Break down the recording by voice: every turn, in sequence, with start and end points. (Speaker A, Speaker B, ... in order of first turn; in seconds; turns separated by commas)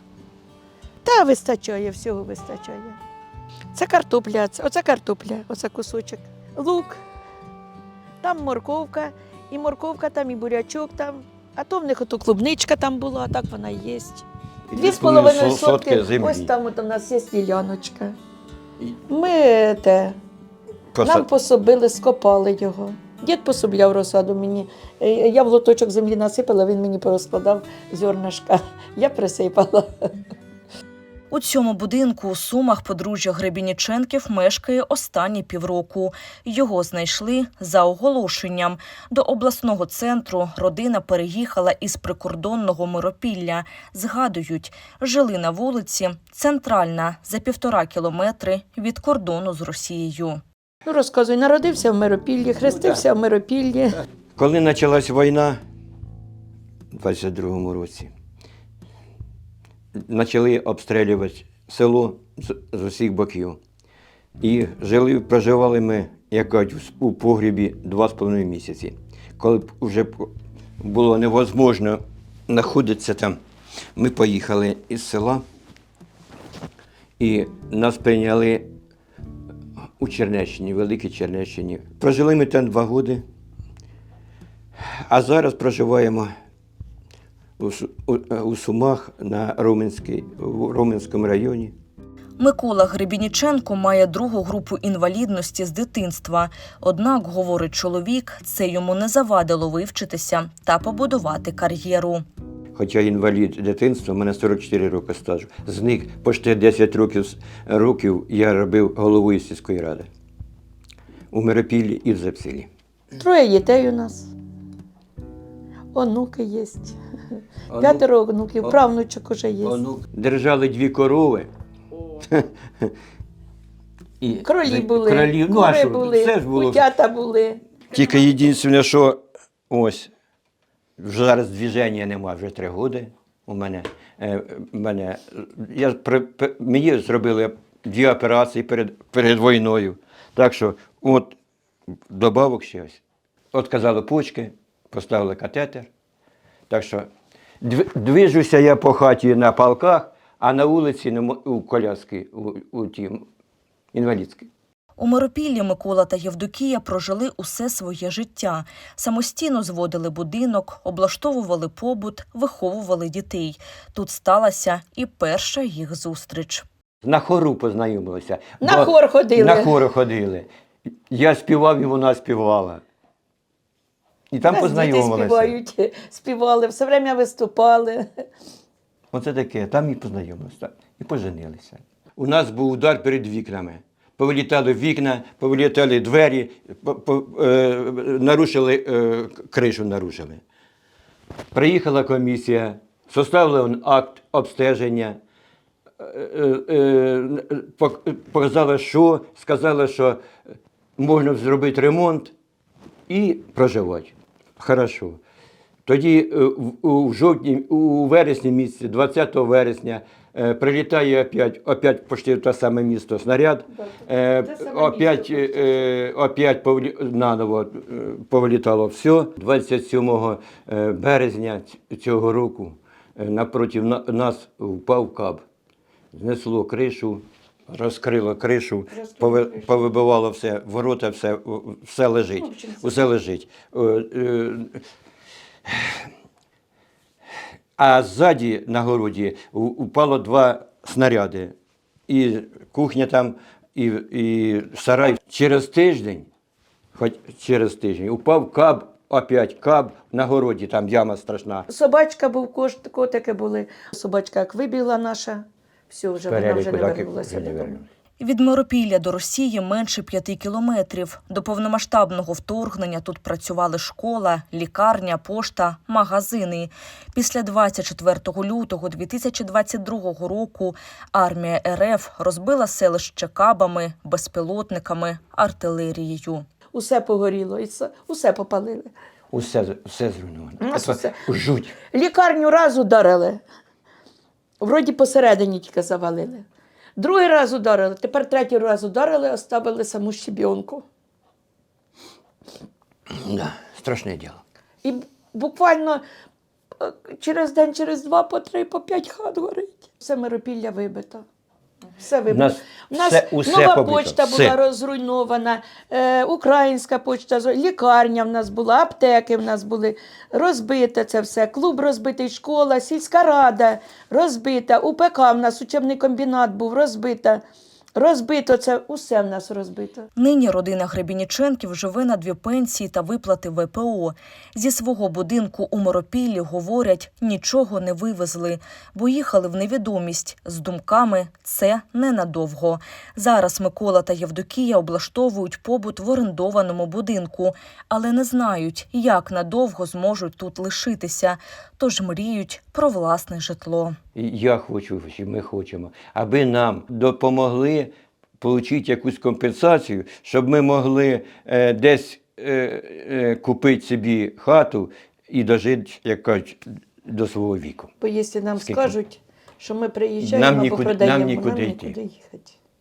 Speaker A: 1.0-3.0, Speaker A: 3.7-7.0, Speaker A: 8.2-18.1, Speaker B: 14.7-16.5, Speaker A: 19.1-20.2, Speaker B: 20.9-21.3, Speaker A: 21.0-30.1, Speaker C: 31.3-50.4, Speaker A: 50.8-54.0, Speaker B: 54.4-55.6, Speaker B: 56.9-58.1, Speaker B: 59.9-63.6, Speaker B: 64.4-73.4, Speaker B: 74.0-75.4, Speaker B: 77.2-78.7, Speaker B: 80.0-83.2, Speaker B: 84.8-86.3, Speaker B: 87.6-91.7, Speaker C: 92.4-102.2, Speaker B: 102.7-110.1, Speaker B: 111.3-112.7, Speaker A: 113.2-114.3, Speaker A: 115.9-117.0, Speaker B: 117.7-118.0, Speaker A: 117.7-119.8, Speaker B: 119.6-121.5, Speaker B: 122.3-122.9, Speaker B: 124.2-126.8, Speaker A: 124.4-127.6, Speaker B: 127.9-130.1, Speaker B: 131.0-141.3, Speaker B: 142.1-143.0, Speaker B: 143.5-145.9, Speaker B: 146.7-147.1, Speaker B: 147.6-153.2, Speaker B: 153.9-154.5, Speaker C: 155.0-166.6, Speaker B: 167.0-170.5, Speaker A: 168.6-169.8, Speaker B: 171.1-172.8, Speaker B: 174.3-175.6, Speaker A: 174.5-178.1, Speaker B: 179.1-190.4, Speaker B: 191.5-195.2, Speaker B: 196.0-200.2, Speaker B: 201.0-202.3, Speaker B: 203.1-205.2, Speaker B: 205.8-225.4, Speaker A: 213.8-215.6, Speaker B: 226.1-234.8, Speaker A: 228.9-229.9, Speaker A: 232.4-232.9, Speaker B: 235.7-236.0, Speaker B: 237.8-241.5, Speaker B: 242.1-246.3, Speaker B: 246.9-251.7, Speaker A: 251.7-257.8, Speaker B: 256.2-257.9, Speaker C: 258.2-276.4, Speaker A: 276.7-278.9, Speaker B: 279.3-281.8, Speaker A: 280.6-281.2, Speaker A: 281.8-283.4, Speaker A: 284.6-286.4, Speaker A: 287.0-290.8, Speaker B: 293.1-294.4, Speaker A: 294.8-296.0, Speaker A: 296.8-301.2, Speaker A: 302.0-317.4, Speaker B: 302.3-304.6, Speaker A: 317.9-320.1, Speaker C: 320.1-343.9, Speaker B: 344.1-357.9, Speaker A: 358.0-362.5, Speaker B: 358.6-358.9, Speaker B: 360.2-361.9